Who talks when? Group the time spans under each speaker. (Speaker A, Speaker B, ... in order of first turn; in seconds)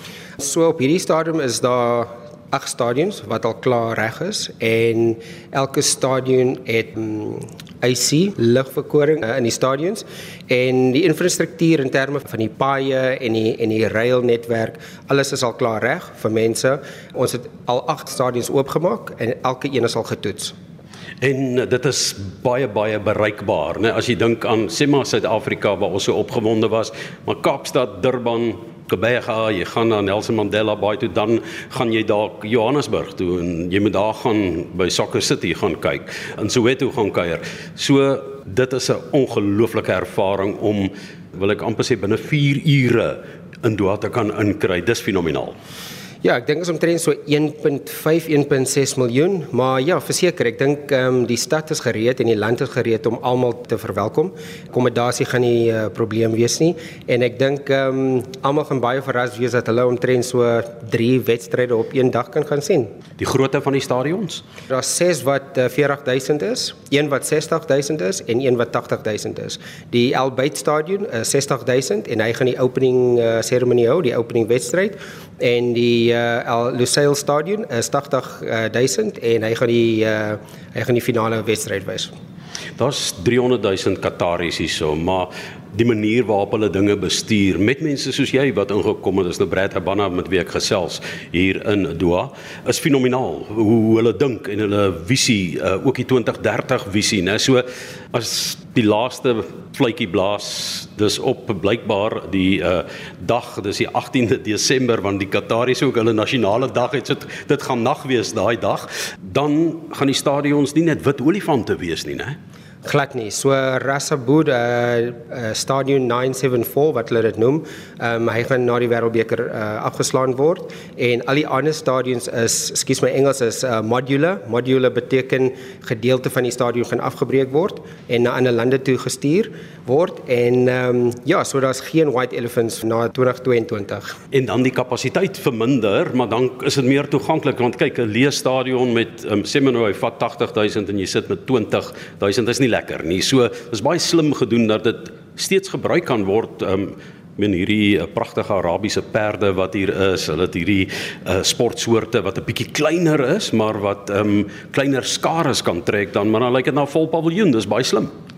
Speaker A: 0.4-20.5, 46.2-62.9, 64.7-82.1, 112.8-134.2
Speaker B: 21.2-45.5, 63.2-64.4, 82.8-112.3, 134.3-158.1